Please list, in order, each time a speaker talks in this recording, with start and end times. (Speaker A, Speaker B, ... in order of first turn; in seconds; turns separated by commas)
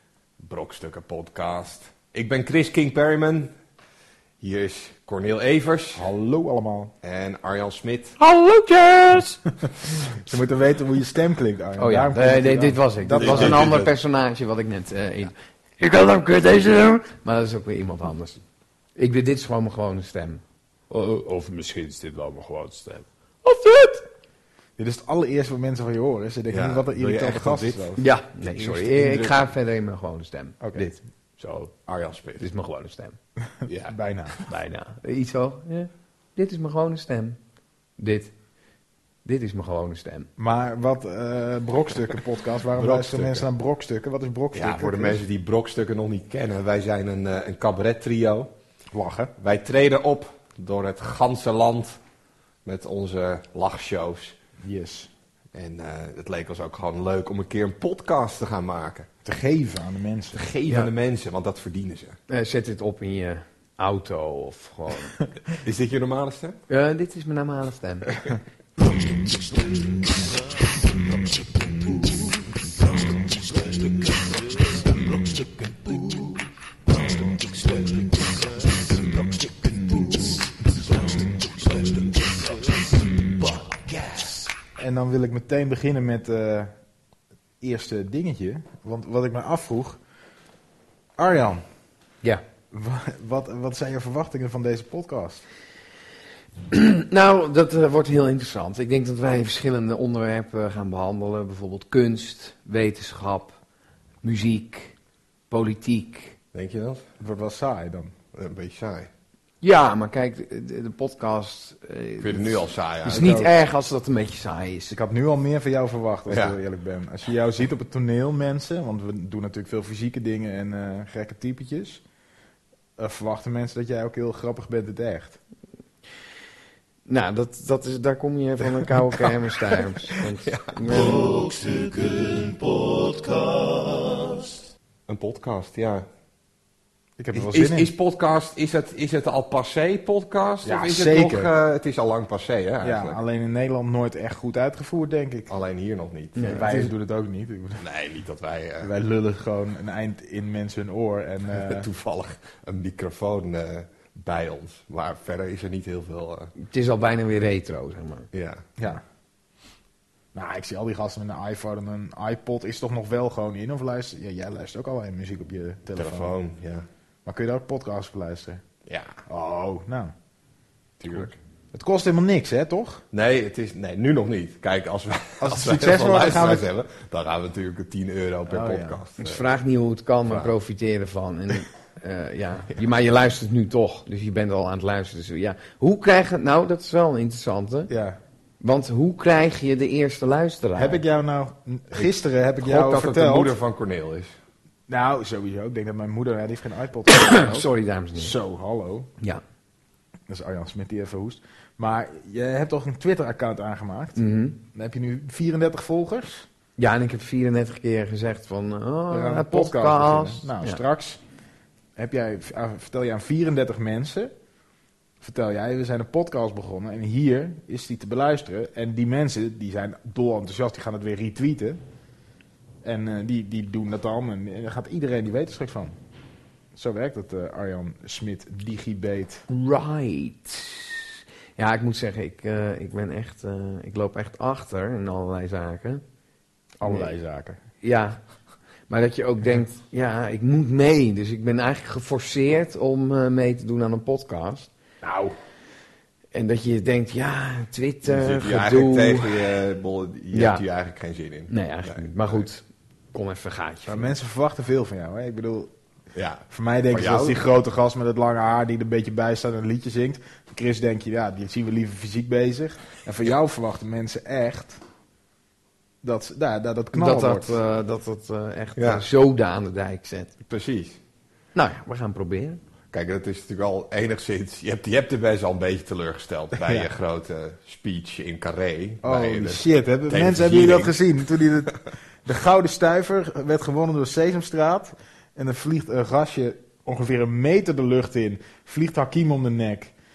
Speaker A: 0.4-3.5, Speaker A: 4.4-6.0, Speaker B: 6.0-6.9, Speaker A: 7.0-8.2, Speaker C: 8.2-9.4, Speaker B: 10.2-13.7, Speaker C: 11.8-18.4, Speaker A: 13.2-13.9, Speaker C: 19.0-20.4, Speaker D: 20.9-23.0, Speaker C: 23.4-24.1, Speaker B: 24.8-28.0, Speaker A: 26.5-29.4, Speaker C: 28.0-31.6, Speaker B: 30.6-30.9, Speaker A: 31.9-32.4, Speaker C: 32.4-33.2, Speaker B: 33.6-34.4, Speaker A: 33.7-34.5, Speaker C: 34.5-37.4, Speaker C: 38.0-38.3, Speaker C: 39.2-40.3, Speaker B: 40.4-45.2, Speaker A: 42.8-43.5, Speaker A: 44.5-48.5, Speaker B: 48.9-49.3, Speaker A: 49.4-52.0, Speaker A: 52.6-54.4, Speaker B: 54.6-55.1, Speaker A: 55.5-59.1, Speaker B: 59.2-60.4, Speaker A: 60.3-62.2, Speaker C: 62.3-65.2, Speaker A: 65.6-66.6, Speaker C: 66.7-68.1, Speaker D: 68.8-84.5, Speaker B: 84.8-86.7, Speaker B: 87.6-90.0, Speaker B: 91.2-91.6, Speaker B: 92.7-95.4, Speaker C: 96.7-103.5, Speaker C: 104.2-105.0, Speaker C: 105.5-106.4, Speaker A: 106.5-107.0, Speaker B: 107.2-108.1, Speaker A: 108.3-109.1, Speaker C: 109.6-115.0, Speaker A: 112.2-113.4, Speaker B: 113.1-113.5, Speaker B: 114.9-122.0, Speaker A: 116.3-116.6, Speaker B: 123.0-125.4, Speaker C: 127.1-131.2, Speaker A: 128.9-131.1, Speaker D: 130.9-134.6, Speaker A: 135.1-136.1, Speaker B: 137.2-137.9, Speaker A: 137.3-143.2, Speaker B: 140.6-141.5, Speaker B: 142.8-145.5, Speaker A: 145.5-146.7, Speaker C: 146.4-146.9, Speaker B: 146.5-147.8, Speaker A: 147.8-148.9, Speaker B: 148.8-151.9, Speaker A: 151.6-156.5, Speaker C: 156.6-158.3, Speaker A: 158.3-158.7, Speaker B: 160.3-166.3, Speaker A: 165.9-166.8, Speaker B: 167.2-168.6, Speaker A: 168.9-169.2, Speaker B: 169.3-170.1, Speaker B: 171.0-173.0, Speaker A: 173.1-179.5, Speaker B: 175.4-176.7, Speaker B: 178.5-179.0, Speaker C: 179.2-187.9, Speaker B: 187.9-188.2, Speaker C: 188.6-191.0, Speaker B: 190.8-193.6, Speaker A: 192.6-194.3, Speaker B: 194.9-199.1, Speaker C: 197.1-198.3, Speaker B: 200.3-206.5, Speaker C: 204.2-204.6, Speaker C: 206.8-210.8, Speaker B: 209.1-211.2, Speaker B: 212.0-214.3, Speaker B: 215.2-221.8, Speaker B: 222.8-226.0, Speaker B: 226.7-229.5, Speaker C: 229.5-236.0, Speaker B: 236.8-237.6, Speaker C: 236.8-237.1, Speaker C: 237.8-238.2, Speaker C: 238.9-244.7, Speaker B: 245.0-245.4, Speaker C: 246.3-249.5, Speaker A: 248.1-252.4, Speaker C: 250.3-250.6, Speaker C: 251.5-254.1, Speaker B: 253.9-255.7, Speaker A: 256.1-257.4, Speaker B: 256.5-264.8, Speaker B: 266.0-267.6, Speaker C: 266.9-270.3, Speaker A: 268.8-269.1, Speaker A: 270.4-271.0, Speaker C: 271.6-272.6, Speaker A: 272.9-281.0, Speaker B: 276.6-276.9, Speaker B: 279.0-289.9